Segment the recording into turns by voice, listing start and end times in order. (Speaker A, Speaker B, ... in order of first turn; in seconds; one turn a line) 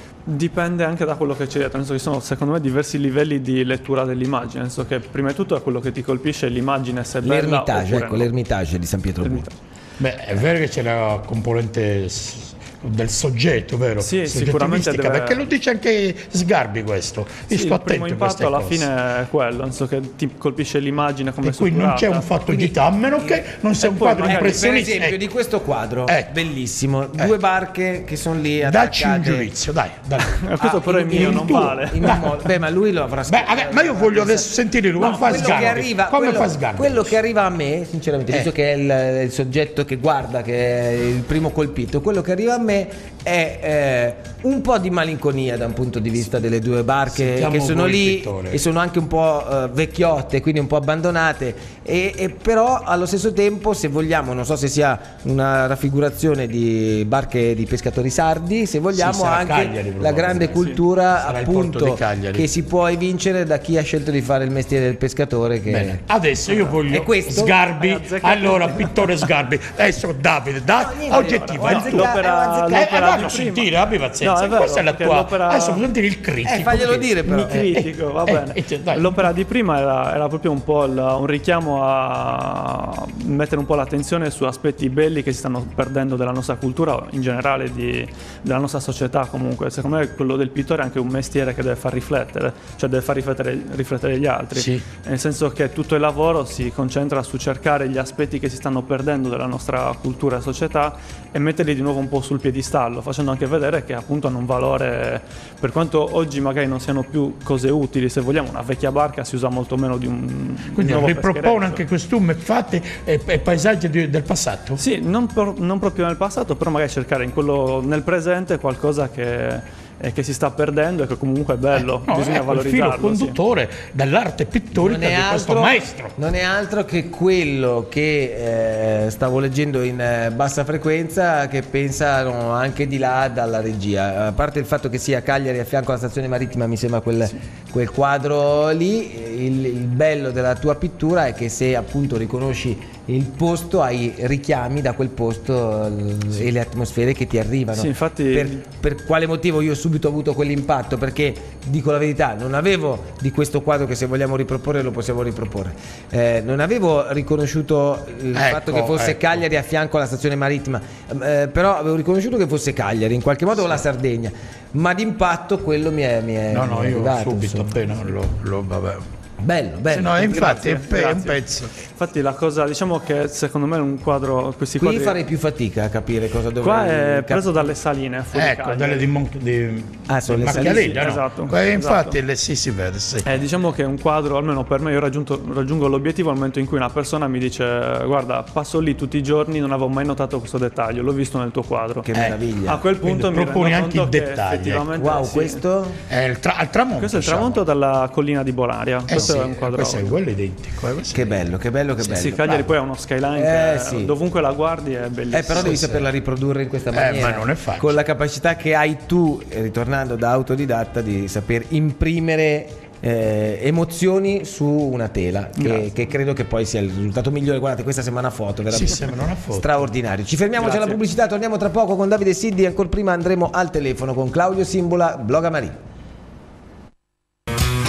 Speaker A: 0.2-8.3
Speaker B: 7.2-9.5
Speaker A: 9.2-9.5
Speaker C: 10.0-18.9
Speaker A: 14.0-15.5
Speaker A: 17.5-22.2
Speaker C: 21.4-25.2
Speaker B: 22.4-29.5
Speaker A: 23.8-24.8
Speaker C: 26.1-26.3
Speaker C: 28.6-30.4
Speaker A: 30.2-32.1
Speaker B: 30.6-66.0
Speaker C: 31.1-32.5
Speaker C: 33.3-37.1
Speaker C: 47.1-48.6
Speaker C: 58.9-62.5
Speaker A: 60.5-60.8
Speaker C: 65.7-72.2
Speaker B: 66.9-67.5
Speaker A: 67.8-69.1
Speaker B: 70.8-72.9
Speaker A: 71.1-73.7
Speaker C: 72.7-79.3
Speaker A: 74.2-75.8
Speaker B: 76.4-77.6
Speaker A: 77.2-111.8
Speaker C: 94.5-94.8
Speaker C: 110.8-114.8
Speaker A: 114.8-123.4
Speaker C: 121.8-126.1
Speaker B: 124.7-168.1
Speaker A: 147.7-148.6
Speaker C: 158.3-159.4
Speaker C: 166.5-169.1
Speaker B: 169.4-170.7
Speaker C: 169.9-171.7
Speaker A: 170.1-175.2
Speaker B: 174.8-177.7
Speaker A: 176.6-179.1
Speaker C: 178.3-183.3
Speaker B: 180.1-181.1
Speaker A: 180.4-182.2
Speaker A: 183.2-192.1
Speaker B: 192.0-192.8
Speaker C: 192.1-192.4
Speaker A: 192.6-195.6
Speaker C: 193.0-194.9
Speaker B: 194.9-196.0
Speaker C: 196.1-197.6
Speaker A: 197.0-200.2
Speaker C: 199.1-201.4
Speaker B: 199.1-199.4
Speaker B: 201.1-202.7
Speaker C: 202.0-202.3
Speaker A: 202.1-205.8
Speaker B: 203.3-204.1
Speaker B: 205.3-225.8
Speaker C: 205.5-206.1
Speaker C: 206.9-207.9
Speaker A: 215.6-215.9
Speaker C: 218.7-219.9
Speaker A: 220.6-221.0